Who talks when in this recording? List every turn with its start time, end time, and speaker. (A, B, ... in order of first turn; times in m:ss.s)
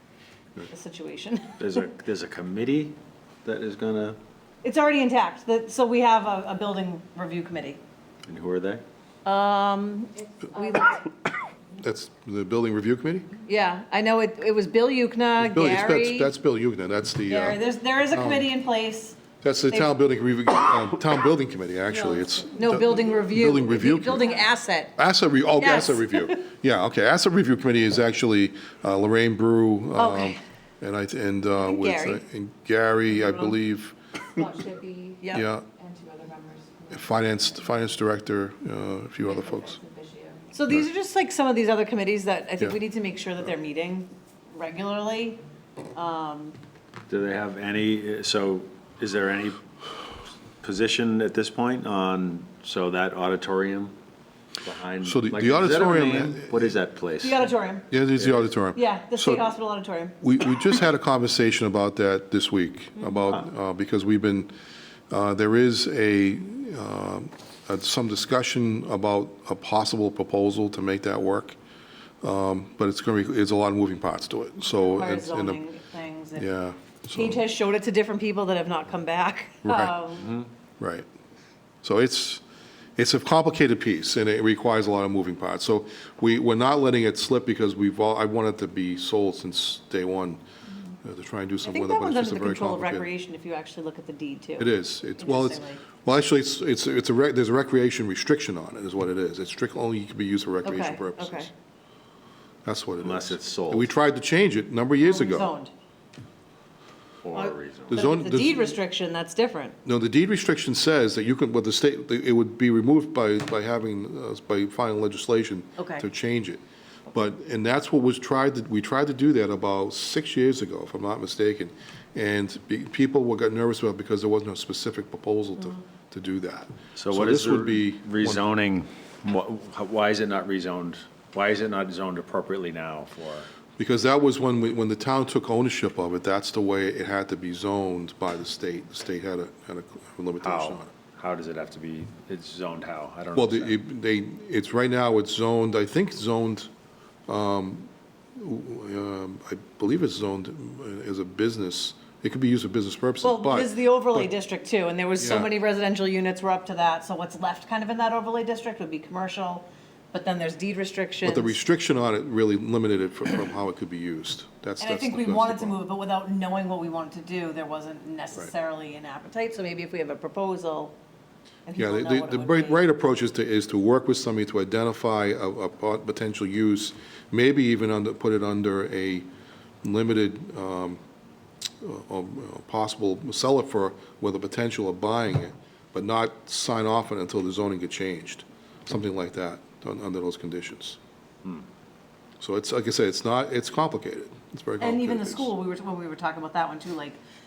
0:00.7-0:01.8 A
0:01.6-0:04.2 B
0:04.6-0:07.8 A
0:08.3-0:08.8 B
0:09.2-0:11.1 A
0:11.8-0:13.3 C
0:13.4-0:16.3 A
0:15.4-0:17.6 C
0:17.3-0:19.2 A
0:18.1-0:18.5 C
0:19.4-0:24.4 C
0:22.4-0:24.9 A
0:25.0-0:34.0 C
0:25.6-0:26.4 A
0:29.9-0:30.4 A
0:31.6-0:32.2 A
0:34.4-0:35.2 D
0:35.3-0:35.7 C
0:35.8-0:37.0 D
0:36.9-0:39.8 C
0:39.4-0:40.5 D
0:40.5-0:45.4 A
0:45.9-0:46.6 A
0:47.1-0:49.6 B
0:50.6-0:53.9 B
0:54.6-0:57.5 B
0:55.0-0:56.8 C
0:57.2-0:57.9 A
0:57.9-0:59.5 C
0:58.2-0:58.5 B
0:58.7-1:00.2 A
1:00.2-1:04.5 C
1:05.1-1:11.6 C
1:12.2-1:15.6 C
1:14.8-1:16.5 A
1:16.4-1:17.4 C
1:17.1-1:20.3 A
1:19.6-1:20.0 C
1:20.2-1:20.5 B
1:20.8-1:21.0 C
1:21.8-1:22.4 C
1:23.0-1:30.4 C
1:31.0-1:33.1 C
1:31.6-1:35.8 A
1:34.6-1:41.5 C
1:40.6-1:41.5 A
1:42.6-1:45.5 C
1:43.0-1:43.9 B
1:45.0-1:45.7 A
1:47.2-1:48.0 B
1:47.3-1:49.8 A
1:47.9-1:48.7 C
1:49.8-2:08.4 C
1:55.8-1:56.0 A
2:07.0-2:13.5 B
2:13.8-2:20.9 C
2:20.4-2:23.8 B
2:23.3-2:26.7 C
2:27.3-2:34.3 C
2:33.2-2:41.6 A
2:35.2-2:35.5 C
2:41.2-2:45.8 C
2:44.8-2:50.9 A
2:51.6-2:52.8 A
2:51.8-2:59.3 C
2:59.8-3:01.0 C
3:01.8-3:11.0 C
3:12.4-3:15.5 C
3:14.8-3:17.2 A